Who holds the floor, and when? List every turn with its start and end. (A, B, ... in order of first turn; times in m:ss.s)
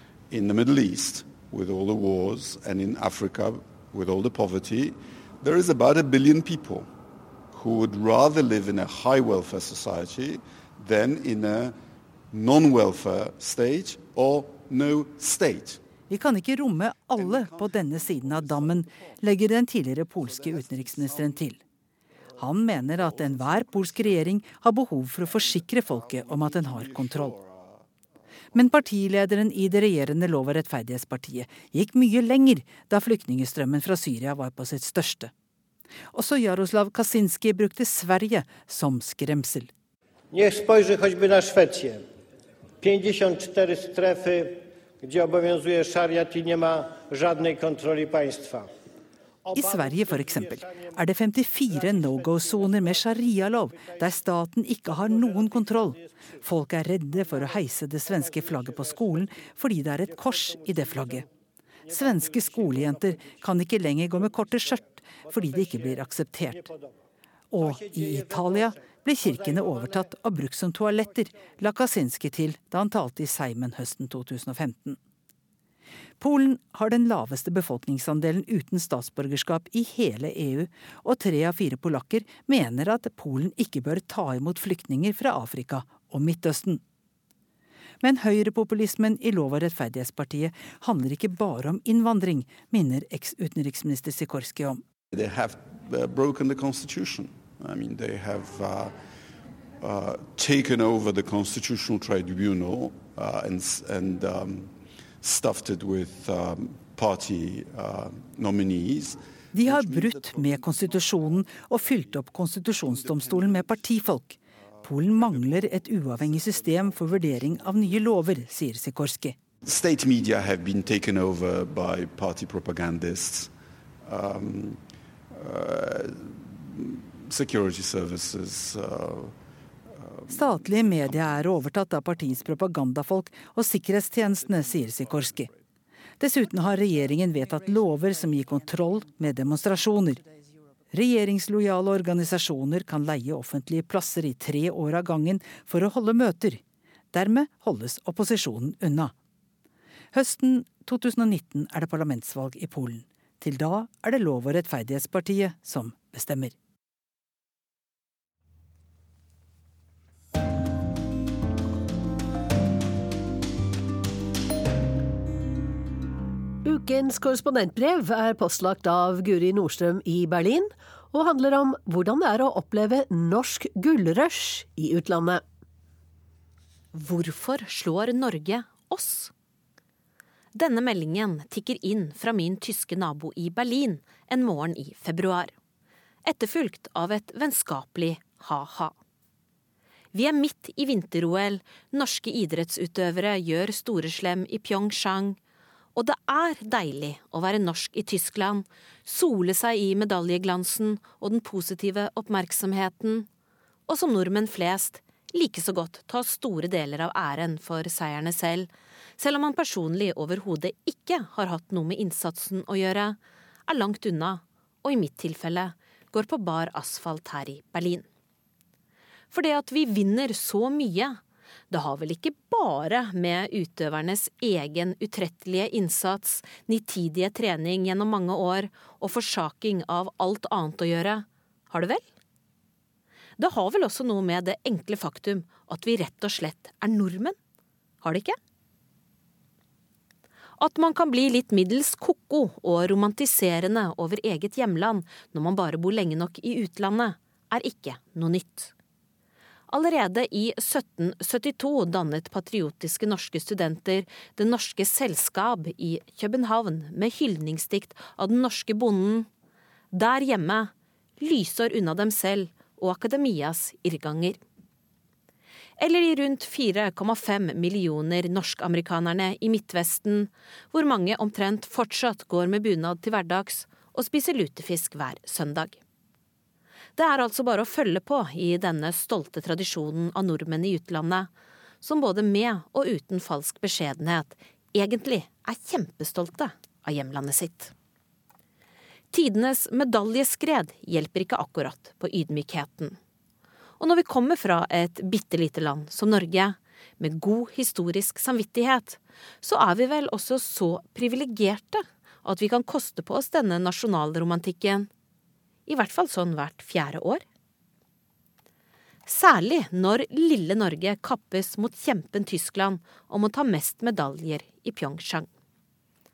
0:00.3-0:06.9 A
0:07.5-0:11.7 A
0:12.3-0:15.8 A
0:16.1-0:21.6 B
0:17.2-0:19.1 A
0:20.4-0:20.9 A
0:22.4-0:27.4 B
0:22.9-0:24.2 A
0:25.2-0:27.8 A
0:28.5-0:35.3 B
0:36.1-0:39.7 B
0:40.3-0:42.0 C
0:42.8-0:48.7 C
0:49.5-1:01.2 B
1:01.9-1:06.7 B
1:07.5-1:15.0 B
1:16.2-1:26.8 B
1:28.0-1:34.8 B
1:35.1-1:38.9 A
1:39.8-1:51.9 A
1:49.5-1:59.4 B
1:52.9-1:53.8 A
1:55.0-1:57.4 A
1:59.6-2:03.5 A
2:04.0-2:09.4 A
2:09.9-2:11.4 A
2:10.3-2:15.5 B
2:14.4-2:15.5 A
2:16.2-2:20.2 B
2:20.9-2:26.6 B
2:27.1-2:29.1 B
2:30.1-2:36.5 B
2:46.6-2:55.4 D
2:56.9-2:59.3 E
3:00.5-3:05.5 E
3:06.2-3:08.9 E
3:10.1-3:15.4 E
3:15.9-3:23.3 E
3:23.9-3:33.2 E
3:33.7-3:38.0 E
3:39.3-3:41.2 E
3:41.7-3:52.0 E
3:53.4-3:57.3 E
3:58.0-3:58.4 E
4:00.6-4:08.7 E
4:09.7-4:19.3 E
4:19.9-4:24.4 E
4:25.8-4:35.8 E
4:37.0-4:41.3 E
4:41.8-4:47.7 E
4:49.1-4:53.0 E
4:53.8-5:04.9 E
5:05.7-5:07.2 E
5:09.1-5:15.3 E